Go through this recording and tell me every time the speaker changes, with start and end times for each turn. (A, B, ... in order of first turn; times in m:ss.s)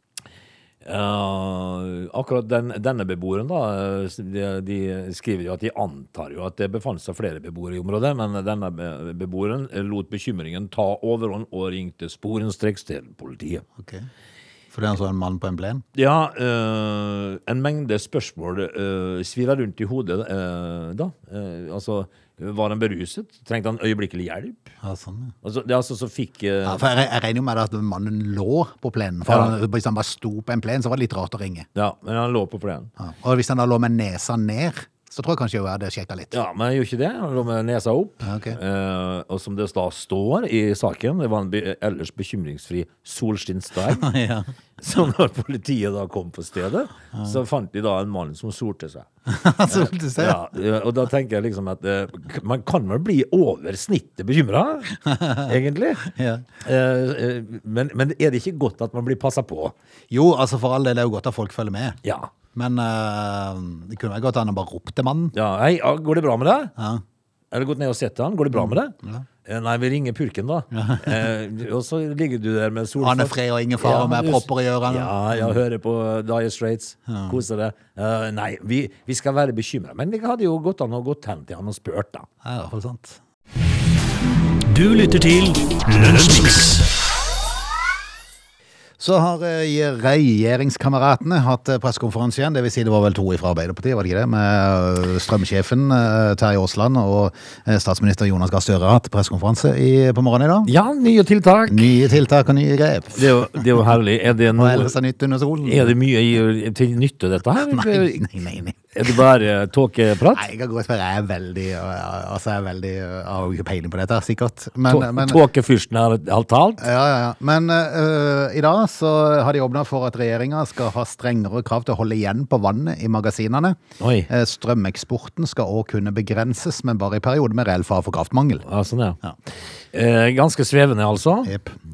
0:00.8-0:13.6 A
0:13.8-0:14.1 B
0:14.7-0:15.8 B
0:15.9-0:24.7 A
0:24.8-0:25.3 B
0:25.4-0:26.8 A
0:26.6-0:31.7 B
0:29.2-0:29.5 A
0:31.7-0:32.9 A
0:33.0-0:36.4 B
0:36.3-0:44.1 A
0:38.2-0:38.6 B
0:43.9-0:44.5 B
0:44.8-0:49.1 A
0:49.3-0:50.4 B
0:49.7-0:56.1 A
0:55.1-0:55.5 B
0:56.0-0:56.4 B
0:56.6-0:59.7 A
1:00.1-1:02.0 B
1:02.0-1:02.3 A
1:02.5-1:05.3 B
1:05.3-1:06.7 A
1:06.8-1:07.0 B
1:07.5-1:22.3 A
1:08.5-1:09.2 B
1:10.7-1:11.2 B
1:13.0-1:15.6 B
1:17.1-1:17.4 B
1:22.4-1:23.2 B
1:24.6-1:26.9 C
1:29.0-1:40.7 B
1:40.6-1:41.9 A
1:41.7-1:43.6 B
1:43.1-1:44.9 A
1:44.6-1:45.9 B
1:45.6-1:48.2 A
1:47.7-1:49.1 B
1:48.9-1:50.4 A
1:50.3-1:55.4 B
1:54.9-1:56.8 A
1:56.8-2:03.8 B
2:04.0-2:04.3 A
2:04.3-2:08.6 B
2:08.6-2:09.2 A
2:09.9-2:11.5 A
2:11.4-2:11.8 B